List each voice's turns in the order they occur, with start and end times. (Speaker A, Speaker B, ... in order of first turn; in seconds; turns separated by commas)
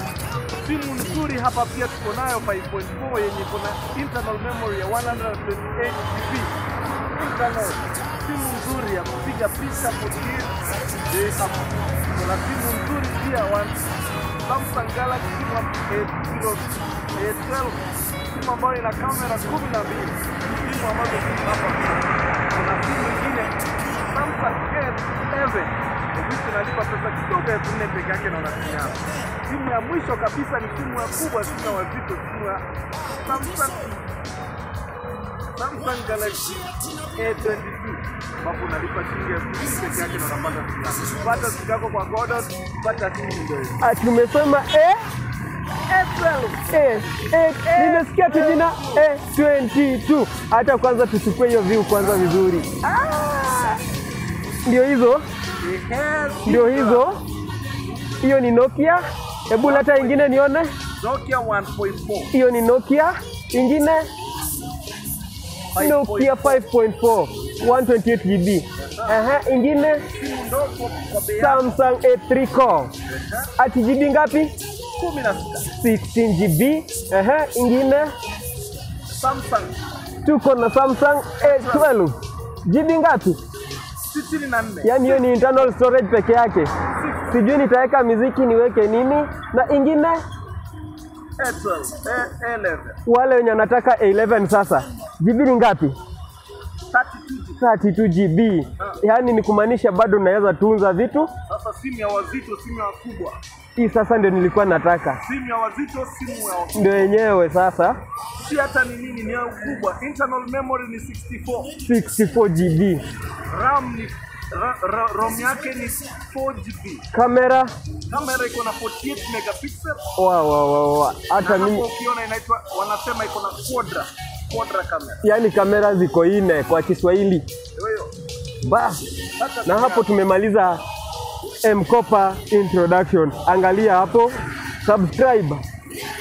Speaker A: 0.6-6.5, Speaker A: 7.1-10.5, Speaker A: 11.1-13.8, Speaker A: 14.4-32.6, Speaker A: 33.2-34.0, Speaker A: 35.5-43.8, Speaker B: 43.8-45.0, Speaker A: 45.9-47.1, Speaker B: 46.7-52.8, Speaker A: 47.6-49.1, Speaker A: 52.8-53.8, Speaker B: 54.6-55.2, Speaker A: 55.6-57.1, Speaker B: 56.5-57.2, Speaker B: 58.2-60.7, Speaker A: 59.6-60.3, Speaker A: 61.0-62.3, Speaker B: 62.3-64.1, Speaker A: 65.7-66.6, Speaker B: 65.8-70.0, Speaker A: 68.8-69.2, Speaker A: 70.1-71.7, Speaker B: 71.4-72.9, Speaker A: 73.1-73.5, Speaker B: 73.6-74.5, Speaker A: 75.0-75.7, Speaker B: 75.8-78.1, Speaker A: 79.1-79.8, Speaker B: 80.2-83.4, Speaker A: 81.4-81.9, Speaker A: 84.1-85.7, Speaker B: 84.8-86.7, Speaker A: 86.9-87.6, Speaker B: 87.3-90.2, Speaker A: 91.4-93.0, Speaker B: 93.1-96.0, Speaker A: 96.9-97.6, Speaker B: 97.6-101.3, Speaker A: 101.5-103.4, Speaker B: 103.8-105.2, Speaker A: 105.2-107.2, Speaker B: 106.8-108.0, Speaker A: 108.4-111.7, Speaker B: 111.8-113.0, Speaker A: 113.5-117.0, Speaker B: 117.1-117.7, Speaker A: 118.1-120.0, Speaker B: 120.2-121.9, Speaker A: 121.4-125.2, Speaker B: 125.2-127.5, Speaker A: 127.8-128.1, Speaker B: 128.6-129.0, Speaker A: 129.4-130.1, Speaker B: 129.7-130.8, Speaker B: 131.6-135.6